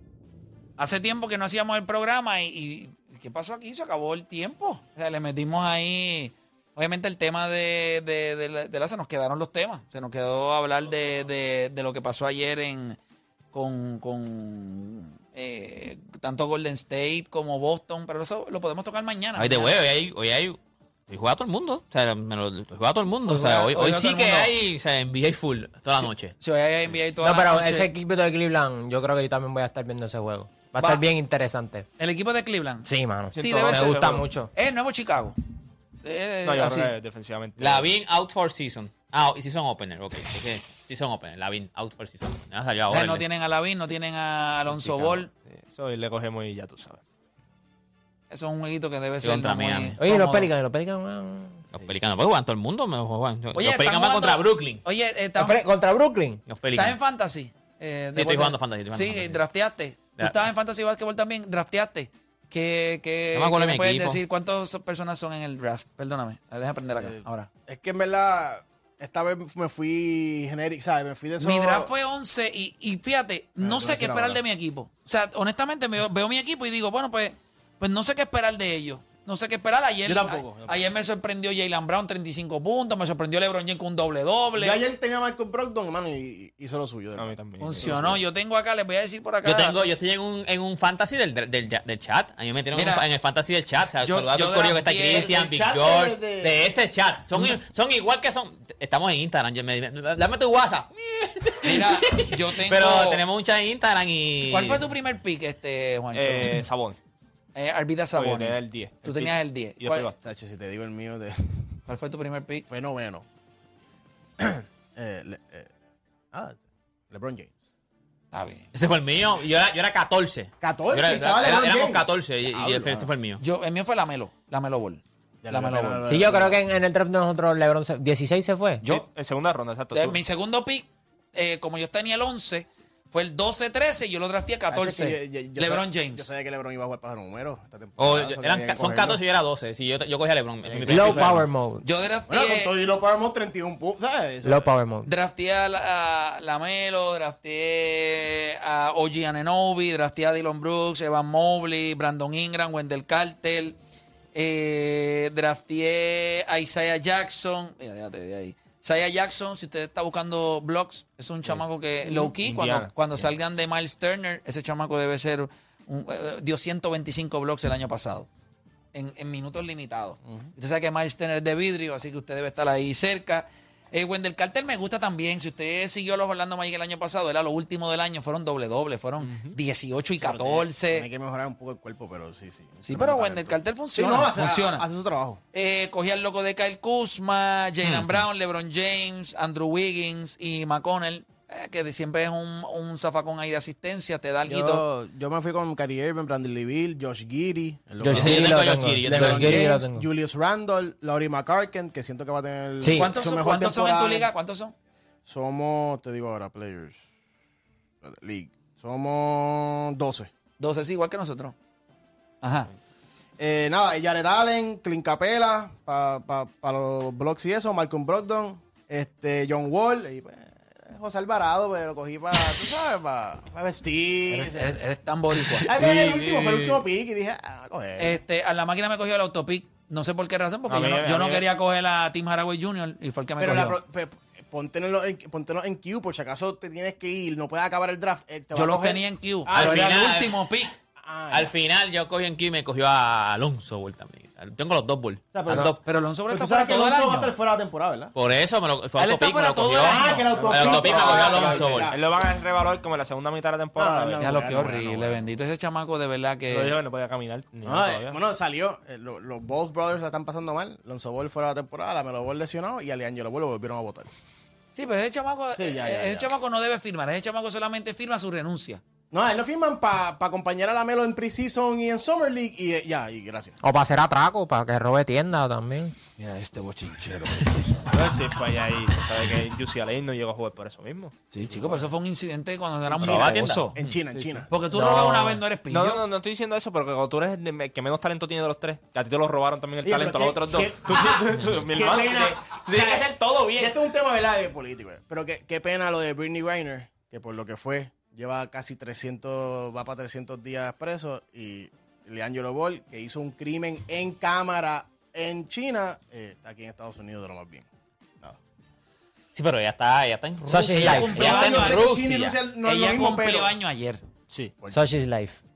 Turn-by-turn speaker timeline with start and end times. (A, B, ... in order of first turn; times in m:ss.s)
0:00.8-0:13.0 A
0:13.5-0:19.8 A
0:19.4-0:20.6 B
0:21.1-0:26.4 B
0:23.2-0:24.5 A
0:26.0-0:27.9 A
0:27.2-0:31.9 C
0:30.8-0:31.0 A
0:32.0-0:35.4 A
0:32.8-0:34.5 C
0:33.3-0:34.3 D
0:36.0-0:37.0 A
0:36.4-0:38.0 D
0:37.6-0:43.3 B
0:42.9-0:45.3 A
0:44.7-0:47.0 D
0:48.3-0:50.5 A
0:49.2-0:50.0 B
0:50.0-0:51.6 C
0:51.7-0:54.8 B
0:53.6-0:55.6 A
0:55.4-0:56.4 C
0:56.5-0:57.0 B
0:56.8-1:07.5 A
0:58.2-0:59.4 B
1:03.3-1:04.2 B
1:06.9-1:11.9 E
1:11.4-1:24.8 A
1:13.6-1:14.4 E
1:20.0-1:20.9 E
1:24.6-1:28.2 E
1:27.2-1:28.2 D
1:27.6-1:29.8 A
1:29.4-1:44.8 B
1:32.7-1:33.0 A
1:34.0-1:35.3 A
1:35.1-1:36.6 E
1:37.3-1:37.6 A
1:41.6-1:43.2 A
1:44.5-1:46.6 A
1:46.1-1:47.0 D
1:47.6-1:50.1 A
1:48.1-1:50.2 D
1:50.2-1:51.8 E
1:51.9-1:52.6 A
1:52.7-1:53.2 E
1:54.4-1:55.7 E
1:56.3-1:57.5 E
1:58.3-1:58.7 A
1:58.7-2:03.4 B
2:00.6-2:03.1 E
2:03.4-2:06.1 A
2:05.4-2:06.6 E
2:06.1-2:08.8 C
2:08.8-2:09.1 A
2:08.9-2:10.2 D
2:09.9-2:16.3 A
2:14.7-2:19.2 E
2:18.0-2:21.5 B
2:20.7-2:21.0 A
2:20.9-2:21.3 E
2:20.9-2:21.9 C
2:21.8-2:22.7 A
2:22.3-2:24.7 E
2:24.4-2:25.1 C
2:25.0-2:33.8 A
2:34.3-2:48.3 A
2:42.2-2:43.3 D
2:48.9-3:01.1 A
2:50.2-2:50.5 E
2:59.2-2:59.6 D
3:00.2-3:05.4 E
3:02.8-3:04.9 A
3:05.5-3:14.8 A
3:07.8-3:08.2 B
3:14.4-3:24.3 E
3:18.0-3:20.1 C
3:18.1-3:19.7 B
3:22.8-3:23.1 C
3:23.0-3:24.7 A
3:25.3-3:27.0 E
3:28.0-3:30.3 E
3:30.6-3:31.6 A
3:32.4-3:32.7 A
3:33.4-3:44.8 E
3:44.3-3:45.8 A
3:45.4-3:46.8 B
3:45.7-3:48.2 E
3:48.0-3:53.8 A
3:50.7-3:51.5 D
3:53.4-3:59.9 E
3:58.5-4:00.7 A
3:59.5-4:00.4 B
4:01.0-4:01.5 E
4:01.3-4:05.8 B
4:05.3-4:05.8 E
4:05.5-4:07.4 A
4:06.3-4:08.1 E
4:08.2-4:11.9 B
4:09.0-4:10.6 A
4:09.8-4:12.2 E
4:10.6-4:14.3 D
4:13.8-4:15.3 E
4:14.2-4:16.8 A
4:16.5-4:18.2 D
4:17.6-4:24.1 E
4:24.8-4:28.8 A
4:25.6-4:26.3 E
4:29.1-4:33.6 E
4:33.6-4:35.9 C
4:36.2-4:38.0 A
4:37.9-4:41.8 D
4:41.3-4:43.7 A
4:43.0-4:43.9 B
4:43.1-4:44.5 E
4:44.1-4:44.5 D
4:44.5-4:46.0 A
4:44.8-4:45.4 C
4:45.7-4:53.8 D
4:49.8-5:07.7 E
5:09.3-5:12.4 B
5:10.4-5:11.6 C
5:10.7-5:11.8 A
5:10.9-5:13.5 E
5:12.6-5:14.0 A
5:14.6-5:14.9 E
5:14.7-5:15.4 C